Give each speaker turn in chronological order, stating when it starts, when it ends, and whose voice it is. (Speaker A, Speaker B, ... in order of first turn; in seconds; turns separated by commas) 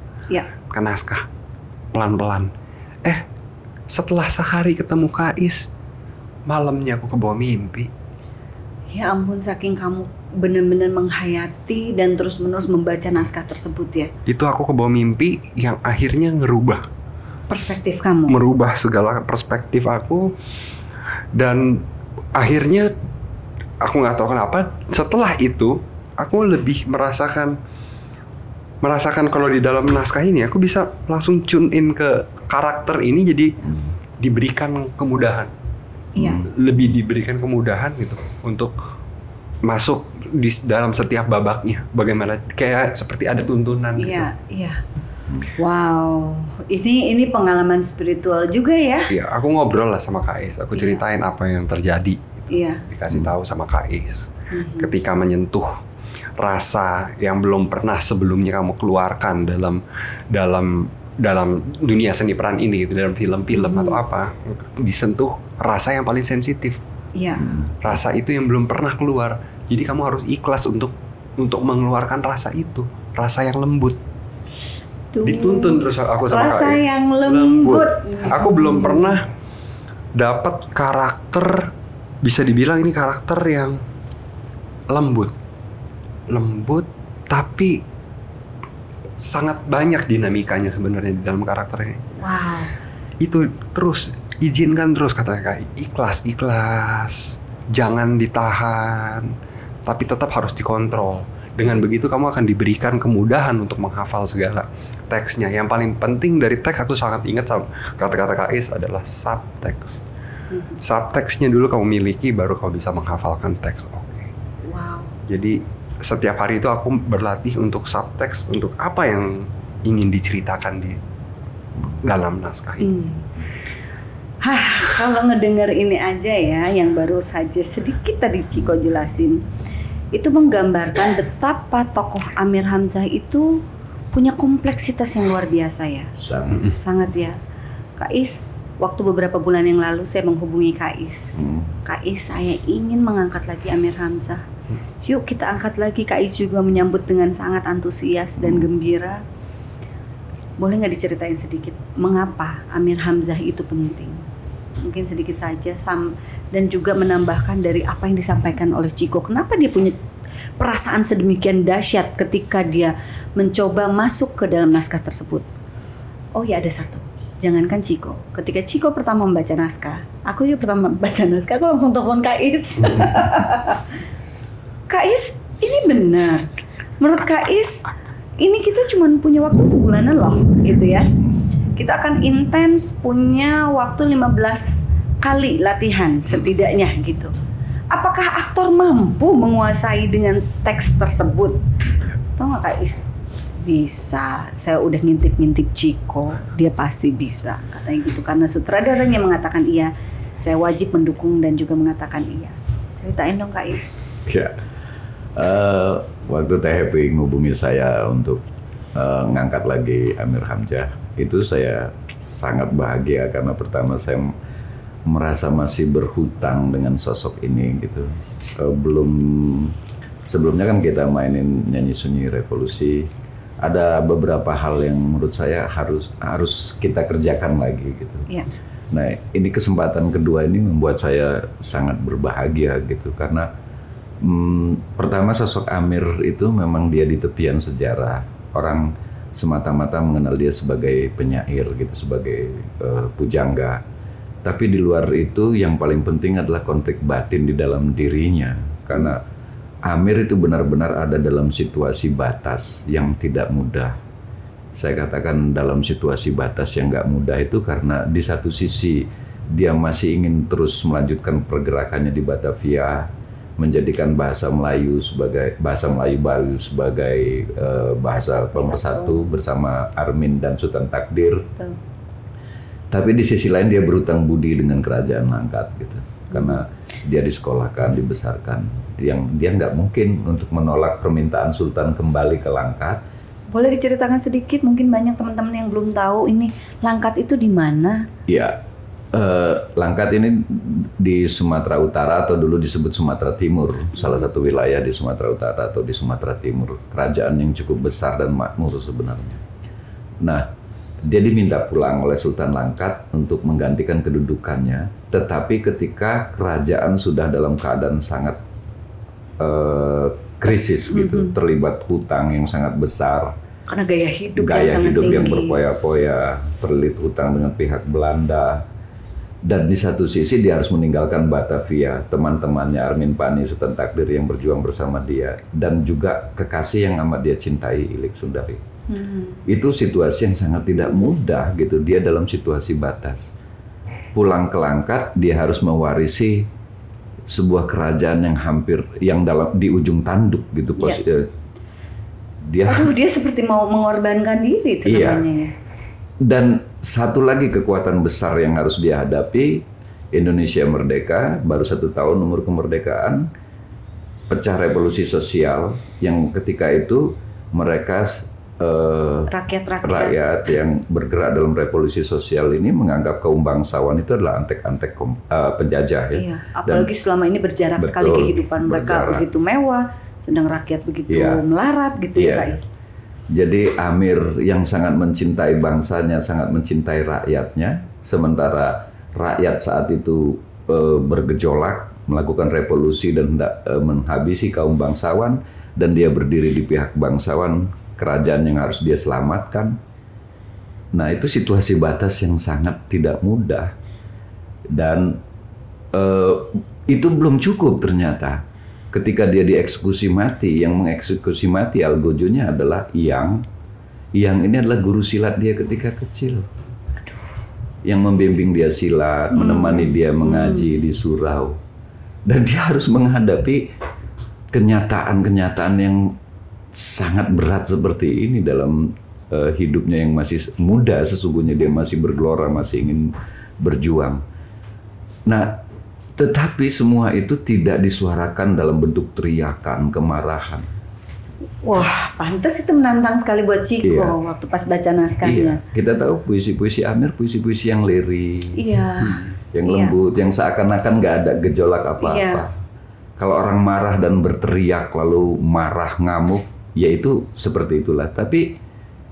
Speaker A: 0.7-1.2, Speaker A: 1.9-2.5, Speaker A: 3.9-5.7, Speaker A: 6.5-7.9, Speaker B: 8.9-14.1, Speaker A: 14.3-16.9, Speaker B: 17.5-18.4, Speaker A: 18.3-20.4, Speaker A: 21.3-22.9, Speaker A: 23.8-27.6, Speaker A: 28.8-33.6, Speaker C: 33.7-33.9, Speaker A: 34.2-35.5, Speaker B: 36.1-36.4, Speaker C: 36.2-36.5, Speaker A: 36.4-38.7, Speaker A: 39.6-44.3, Speaker B: 44.0-44.8, Speaker B: 45.5-49.1, Speaker A: 49.1-55.8, Speaker B: 50.7-51.0, Speaker B: 52.5-52.8, Speaker B: 54.5-54.9, Speaker A: 56.4-66.8, Speaker B: 63.5-64.0, Speaker B: 67.2-67.5, Speaker C: 67.4-67.7, Speaker A: 67.8-74.0, Speaker B: 75.1-79.1, Speaker A: 75.2-79.3, Speaker A: 80.1-81.7, Speaker A: 82.2-83.8, Speaker A: 84.9-85.3, Speaker A: 86.3-87.8, Speaker A: 89.2-92.1, Speaker B: 92.2-92.7, Speaker A: 93.2-110.0, Speaker B: 110.5-110.8, Speaker A: 110.8-114.3, Speaker B: 114.6-115.1, Speaker A: 115.3-121.0, Speaker A: 122.0-123.0, Speaker B: 122.8-123.2, Speaker B: 124.4-129.4, Speaker B: 130.1-136.1, Speaker C: 136.2-136.7, Speaker B: 136.7-137.4, Speaker B: 138.0-141.3, Speaker C: 141.3-141.7, Speaker B: 141.8-144.4, Speaker B: 145.0-149.2, Speaker B: 150.6-154.2, Speaker B: 154.8-159.9, Speaker B: 160.6-165.4, Speaker B: 166.3-174.0, Speaker B: 174.9-177.9, Speaker B: 178.4-181.1, Speaker B: 181.8-187.3, Speaker B: 187.9-191.6, Speaker B: 192.3-193.0, Speaker B: 193.6-203.9, Speaker C: 204.2-204.6, Speaker C: 205.3-208.4, Speaker C: 208.9-214.3, Speaker C: 215.1-223.1, Speaker C: 223.6-228.3, Speaker C: 228.9-233.5, Speaker C: 234.2-243.8, Speaker C: 244.4-249.2, Speaker C: 249.8-253.9, Speaker C: 254.7-271.5, Speaker B: 268.2-269.3, Speaker C: 272.9-283.0, Speaker B: 276.3-276.6, Speaker B: 283.5-288.1, Speaker C: 288.3-288.6, Speaker C: 289.1-299.4, Speaker C: 300.2-300.5, Speaker C: 301.0-308.4, Speaker C: 309.4-313.3, Speaker B: 310.9-311.3, Speaker B: 313.7-315.6, Speaker C: 314.4-318.6, Speaker C: 319.4-328.6, Speaker B: 328.9-329.4, Speaker C: 329.4-333.3, Speaker C: 334.1-336.5, Speaker C: 337.3-341.3, Speaker C: 342.4-342.9, Speaker B: 342.7-345.5, Speaker C: 344.9-345.2, Speaker C: 346.2-353.3, Speaker C: 354.3-359.3, Speaker B: 359.3-360.2, Speaker C: 359.8-366.9, Speaker B: 366.1-372.7, Speaker C: 367.8-369.2, Speaker C: 371.1-371.4, Speaker C: 372.1-372.5, Speaker C: 373.3-389.8, Speaker C: 390.9-393.8, Speaker C: 394.7-395.2, Speaker C: 395.9-403.4, Speaker C: 404.1-406.5, Speaker C: 407.8-411.6, Speaker B: 409.3-410.7, Speaker C: 412.2-413.7, Speaker C: 414.5-416.2, Speaker C: 416.7-424.2, Speaker C: 425.2-425.6, Speaker C: 426.2-430.7, Speaker B: 431.6-435.6, Speaker C: 433.8-434.2, Speaker C: 435.2-442.5, Speaker B: 438.5-439.9, Speaker B: 442.0-442.4, Speaker C: 443.2-448.6